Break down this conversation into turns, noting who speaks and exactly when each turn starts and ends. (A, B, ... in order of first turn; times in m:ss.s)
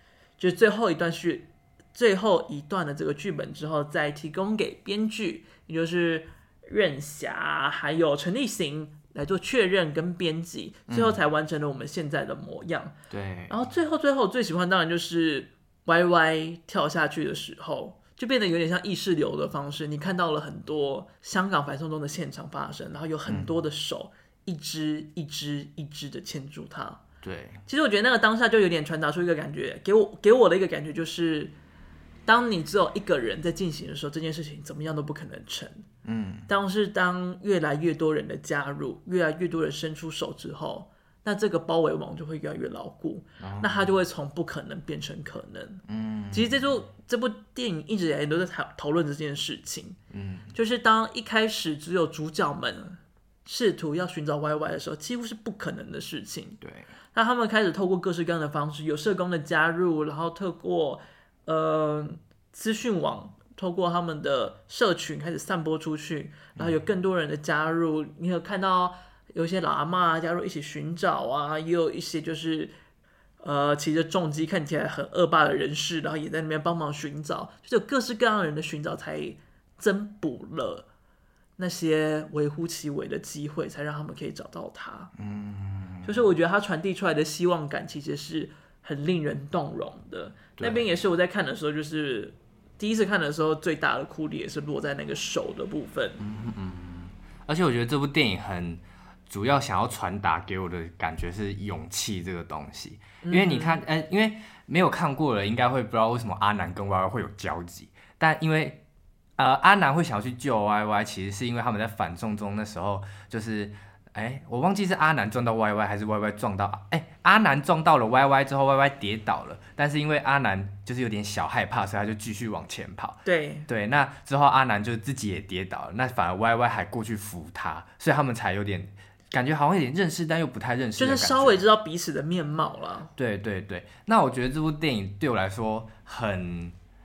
0:00.4-0:12.9 A
0:10.9-0:11.2 B
0:13.1-0:13.6 B
0:13.5-0:27.0 A
0:23.3-0:23.5 B
0:27.2-0:27.6 B
0:27.7-0:31.5 A
0:32.2-0:35.8 A
0:36.0-0:36.5 B
0:36.5-0:50.0 A
0:43.4-0:43.9 B
0:45.9-0:46.8 B
0:50.1-0:50.5 B
0:50.5-0:56.6 A
0:56.6-0:56.9 B
0:57.1-1:12.7 A
1:13.4-1:20.9 A
1:21.6-1:25.1 A
1:25.2-1:26.2 B
1:26.0-1:36.2 A
1:30.6-1:30.9 B
1:36.2-1:48.8 B
1:43.2-1:43.8 A
1:49.4-2:11.6 B
2:03.2-2:03.7 A
2:11.0-2:13.1 A
2:13.2-2:16.7 B